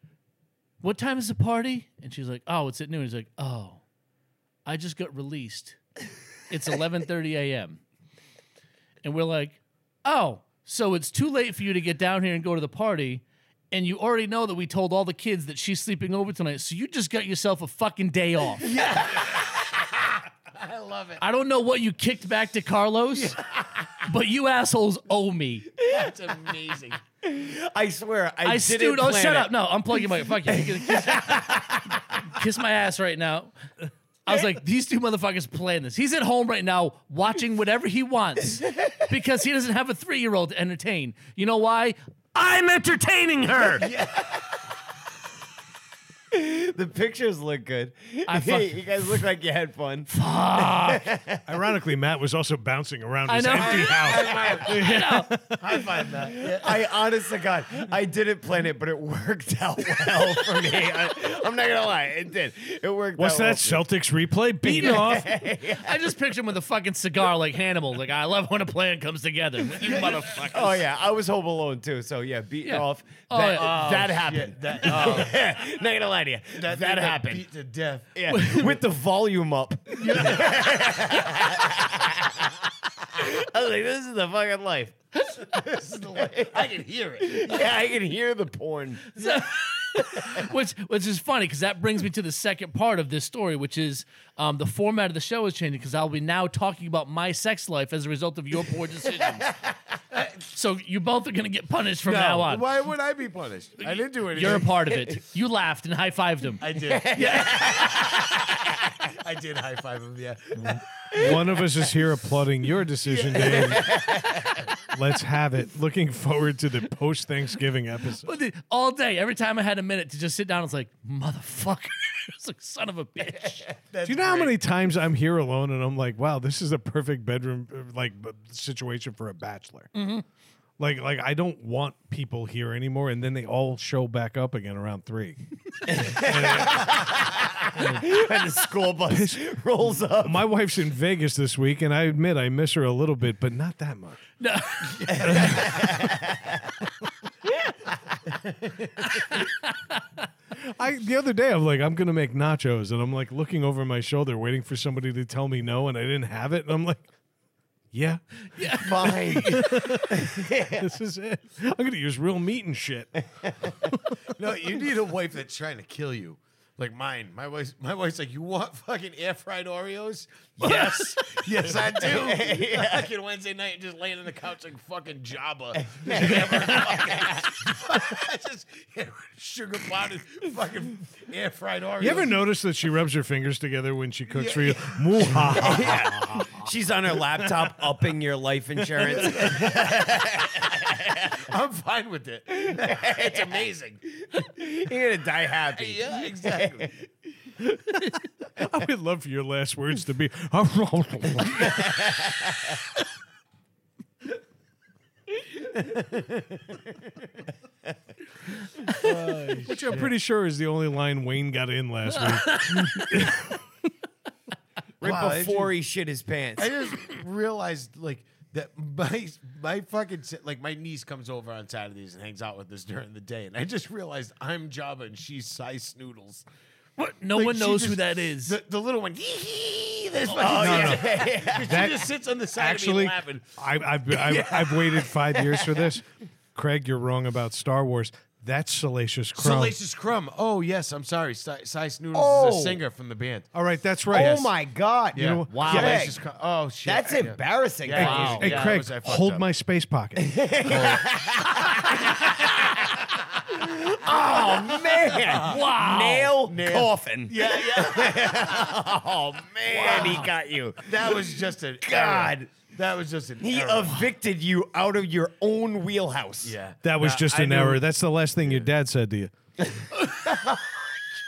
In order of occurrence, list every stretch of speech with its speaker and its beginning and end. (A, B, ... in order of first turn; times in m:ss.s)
0:00.8-0:03.8 A
0:04.6-0:05.8 A
0:06.5-0:07.8 A
0:09.0-0:18.8 A
0:18.6-0:21.2 B
0:18.7-0:19.5 C
0:21.2-0:23.4 A
0:23.1-0:24.0 B
0:24.0-0:25.7 A
0:25.8-0:27.0 B
0:25.8-0:26.1 C
0:27.2-0:29.5 C
0:28.4-0:33.6 A
0:30.5-0:32.0 C
0:34.2-0:43.9 A
0:38.7-0:39.0 C
0:43.8-0:44.4 B
0:46.3-0:51.4 C
0:48.3-0:48.8 A
0:50.1-0:51.1 A
0:51.4-0:55.8 D
0:53.3-0:55.4 A
0:53.5-0:55.0 B
0:55.6-0:56.9 B
0:56.4-1:03.9 C
1:03.2-1:05.4 D
1:04.6-1:06.1 C
1:04.7-1:10.8 A
1:09.9-1:10.2 B
1:10.4-1:17.4 C
1:12.6-1:13.9 A
1:13.3-1:15.6 B
1:16.6-1:18.1 B
1:18.1-1:24.9 C
1:18.3-1:18.8 A
1:19.9-1:21.4 B
1:25.3-1:27.7 B
1:26.2-1:26.7 C
1:27.2-1:29.2 C
1:29.1-1:39.5 A
1:30.1-1:30.4 C
1:39.2-1:39.8 C
1:40.1-1:40.4 B
1:40.5-1:42.7 A
1:42.0-1:44.7 B
1:43.8-1:47.7 A
1:44.8-1:45.2 C
1:46.6-1:48.1 B
1:46.8-1:48.7 C
1:49.0-1:51.7 B
1:51.1-1:54.2 D
1:53.0-1:54.7 B
1:53.4-1:54.6 C
1:54.9-1:58.3 D
1:58.2-2:03.7 A
2:03.9-2:04.6 B
2:04.0-2:09.9 D
2:09.9-2:10.2 A
2:10.8-2:15.4 D
2:15.9-2:20.5 C
2:15.9-2:17.0 D
2:17.8-2:18.1 A
2:19.1-2:19.6 D
2:20.1-2:24.2 D
2:24.4-2:26.0 A
2:25.1-2:26.0 D
2:25.1-2:26.7 C
2:29.1-2:30.3 A
2:30.6-2:37.1 D
2:37.9-2:38.2 D
2:38.4-2:39.7 A
2:38.8-2:40.9 C
2:39.3-2:44.3 D
2:43.4-2:43.9 C
2:44.3-3:02.4 B
2:50.6-2:53.1 C
2:50.6-2:51.1 A
2:55.8-2:57.5 C
2:56.4-2:56.8 A
3:02.0-3:06.4 D
3:04.3-3:06.7 B
3:05.5-3:11.5 C
3:07.4-3:08.1 B
3:08.8-3:10.8 B
3:11.3-3:14.0 B
3:12.6-3:13.7 C
3:14.2-3:16.9 C
3:15.8-3:17.0 B
3:18.6-3:22.0 D
3:21.8-3:22.4 C
3:25.7-3:26.9 C
3:28.8-3:30.1 B
3:29.6-3:33.6 D
3:32.2-3:33.3 A
3:35.0-3:35.8 B
3:35.0-3:36.7 C
3:36.6-3:46.4 B
3:47.0-3:48.6 A
3:47.3-3:53.5 B
3:50.3-3:51.9 C
3:50.5-3:59.8 D
3:54.1-3:55.0 B
3:55.2-3:55.9 C
3:59.4-4:03.5 B
4:02.1-4:02.8 C
4:03.5-4:04.5 D
4:04.1-4:04.5 B
4:04.1-4:06.2 C
4:05.1-4:09.4 B
4:05.1-4:06.1 D
4:06.8-4:08.8 C
4:08.0-4:10.4 D
4:08.0-4:08.4 A
4:10.2-4:22.5 C
4:10.6-4:11.1 B
4:14.0-4:15.7 B
4:15.4-4:16.4 A
4:16.3-4:18.8 B
4:19.7-4:20.3 A
4:19.7-4:20.3 B
4:20.8-4:24.1 B
4:23.4-4:26.6 C
4:26.4-4:27.8 B
4:26.8-4:29.3 D
4:29.7-4:30.8 C